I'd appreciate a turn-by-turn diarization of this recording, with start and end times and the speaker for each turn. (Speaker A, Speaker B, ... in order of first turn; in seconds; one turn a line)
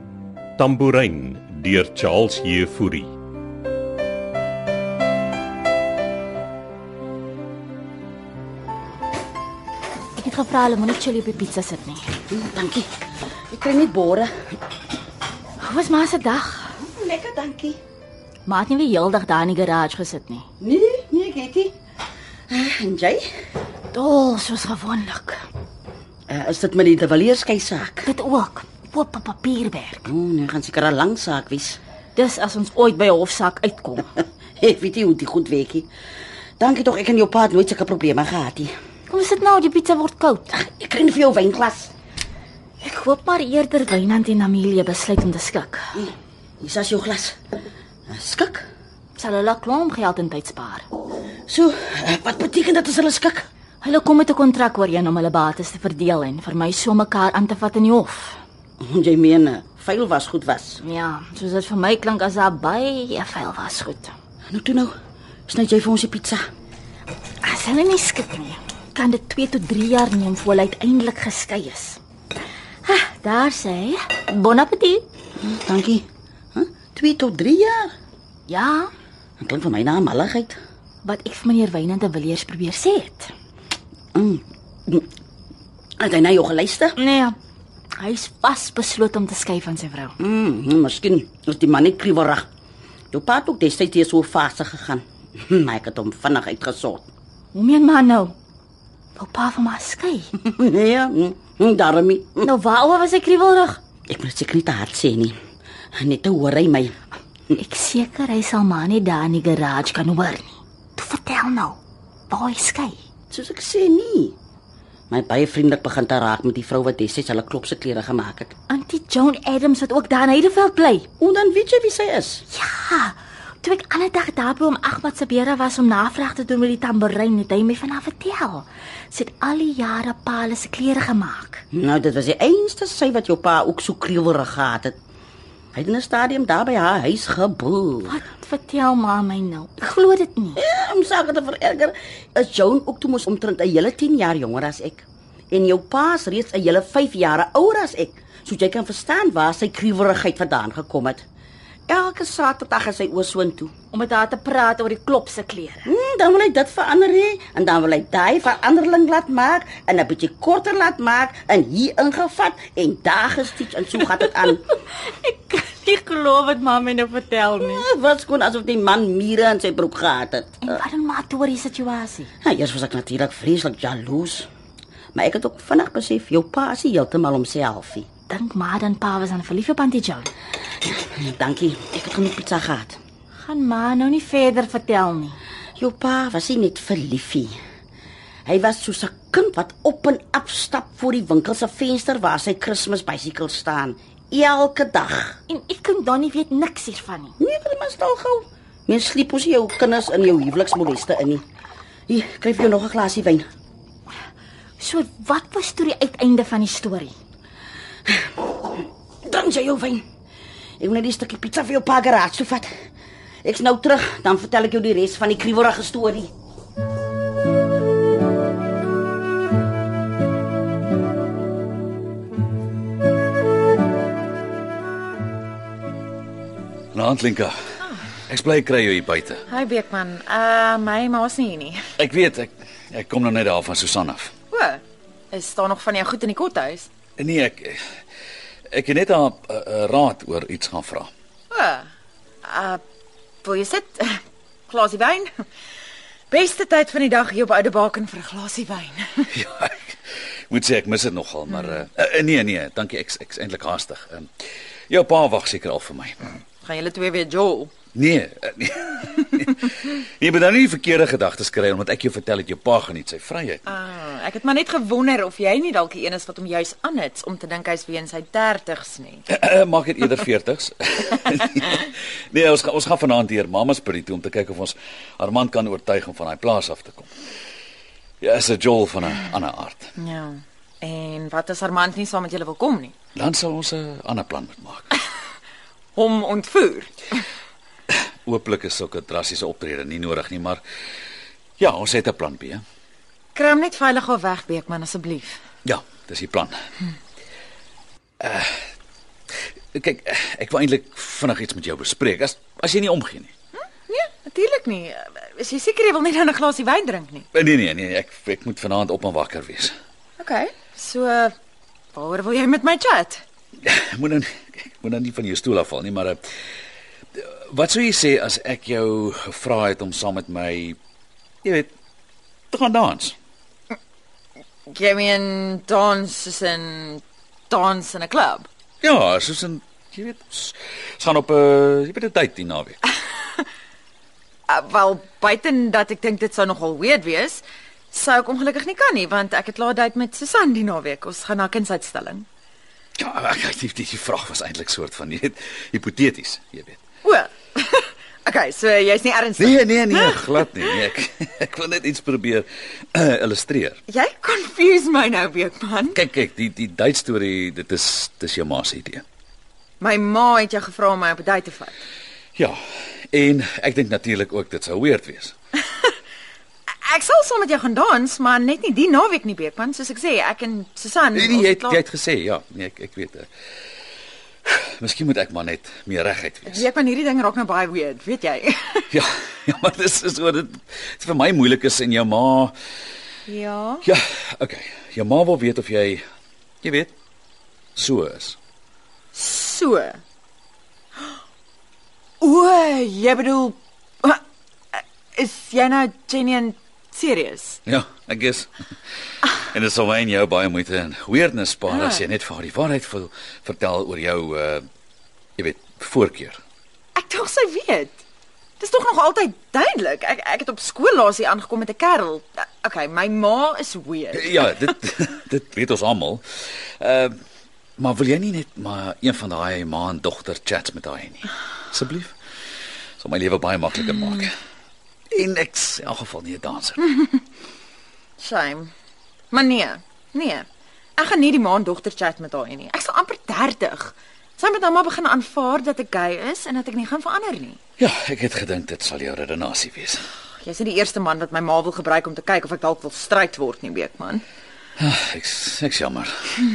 Speaker A: 0.6-3.1
Speaker B: 10.2-12.0
Speaker C: 12.3-12.9
Speaker C: 13.5-14.3
Speaker B: 15.6-16.7
Speaker C: 16.9-17.8
Speaker B: 18.5-20.4
Speaker C: 20.6-21.7
Speaker C: 22.5-23.3
Speaker B: 23.9-25.4
Speaker C: 26.3-28.1
Speaker B: 28.1-30.0
Speaker C: 30.1-31.8
Speaker B: 32.2-34.1
Speaker C: 34.6-35.9
Speaker C: 36.6-38.7
Speaker B: 39.1-40.5
Speaker C: 40.5-41.9
Speaker B: 42.8-45.8
Speaker C: 46.0-47.4
Speaker C: 48.1-48.7
Speaker B: 49.2-50.9
Speaker C: 51.5-53.5
Speaker B: 53.8-58.4
Speaker C: 58.8-60.8
Speaker B: 60.8-64.1
Speaker C: 64.5-64.9
Speaker C: 65.5-66.4
Speaker B: 67.4-72.0
Speaker B: 72.9-75.0
Speaker C: 75.4-77.9
Speaker B: 78.5-78.9
Speaker C: 79.4-80.6
Speaker B: 81.0-83.3
Speaker C: 84.2-85.1
Speaker C: 86.0-87.0
Speaker B: 87.0-87.4
Speaker B: 88.0-90.2
Speaker C: 90.2-92.5
Speaker C: 93.1-97.1
Speaker B: 97.5-98.3
Speaker B: 99.2-100.3
Speaker C: 100.4-102.5
Speaker B: 102.4-103.8
Speaker C: 104.1-105.3
Speaker C: 106.0-106.9
Speaker B: 107.5-111.8
Speaker B: 112.3-113.0
Speaker C: 113.3-114.3
Speaker C: 115.1-118.5
Speaker B: 118.7-121.1
Speaker C: 121.2-122.4
Speaker B: 122.5-131.6
Speaker C: 131.7-134.9
Speaker C: 135.7-138.2
Speaker B: 138.1-140.6
Speaker C: 140.6-151.2
Speaker C: 151.9-153.7
Speaker B: 153.9-155.9
Speaker C: 155.8-164.6
Speaker B: 165.1-167.9
Speaker C: 167.6-170.8
Speaker B: 170.6-172.3
Speaker C: 172.4-174.5
Speaker C: 175.2-178.1
Speaker B: 178.3-180.3
Speaker C: 180.9-183.0
Speaker B: 183.4-185.4
Speaker C: 185.8-187.5
Speaker C: 188.5-195.4
Speaker B: 195.5-197.3
Speaker C: 197.4-201.4
Speaker C: 202.1-203.4
Speaker B: 204.8-207.1
Speaker C: 208.1-208.4
Speaker C: 209.3-210.0
Speaker C: 210.8-212.7
Speaker C: 213.4-216.3
Speaker D: 226.9-227.5
Speaker D: 228.3-229.4
Speaker E: 229.5-231.8
Speaker D: 232.0-234.3
Speaker E: 234.5-236.9
Speaker D: 237.2-237.8
Speaker D: 238.7-241.1
Speaker E: 241.5-241.9
Speaker E: 242.4-242.8
Speaker E: 243.4-245.3
Speaker E: 246.3-249.3
Speaker D: 249.3-254.3
Speaker E: 251.5-251.8
Speaker D: 254.9-256.3
Speaker E: 256.6-257.7
Speaker D: 257.9-263.6
Speaker E: 263.7-269.2
Speaker D: 269.3-277.1
Speaker D: 278.2-279.9
Speaker E: 280.0-282.9
Speaker D: 283.2-284.9
Speaker E: 286.0-287.2
Speaker D: 287.9-290.6
Speaker D: 291.6-292.6
Speaker E: 293.4-295.4
Speaker D: 295.6-296.5
Speaker D: 298.2-298.7
Speaker D: 299.8-303.3
Speaker E: 303.9-307.3
Speaker D: 307.3-309.7
Speaker E: 310.2-311.3
Speaker E: 311.9-313.2
Speaker D: 313.6-316.2
Speaker D: 317.1-320.8
Speaker D: 321.4-321.7
Speaker D: 322.5-323.1
Speaker E: 324.7-328.5
Speaker D: 328.8-332.8
Speaker E: 334.5-342.3
Speaker D: 343.0-346.8
Speaker E: 347.0-350.8
Speaker D: 349.4-353.8
Speaker E: 353.9-356.0
Speaker D: 355.9-359.0
Speaker E: 359.8-361.7
Speaker D: 363.1-365.3
Speaker E: 366.9-371.8
Speaker D: 371.1-373.3
Speaker D: 374.5-376.7
Speaker E: 376.5-378.9
Speaker D: 378.9-382.5
Speaker E: 383.3-383.9
Speaker D: 383.8-386.0
Speaker D: 386.6-386.9
Speaker D: 387.8-388.4
Speaker E: 389.1-390.0
Speaker E: 392.2-394.2
Speaker E: 394.8-397.6
Speaker D: 397.7-398.5
Speaker D: 399.4-404.6
Speaker E: 401.7-402.0
Speaker D: 405.4-406.4
Speaker E: 407.0-408.0
Speaker E: 408.6-414.6
Speaker D: 414.1-416.2
Speaker D: 416.8-417.1
Speaker D: 417.8-422.1
Speaker D: 423.0-424.3
Speaker D: 425.1-427.0
Speaker E: 428.2-428.7
Speaker E: 429.3-430.5
Speaker E: 431.0-437.6
Speaker D: 437.8-440.0
Speaker E: 440.4-444.2
Speaker D: 444.8-446.1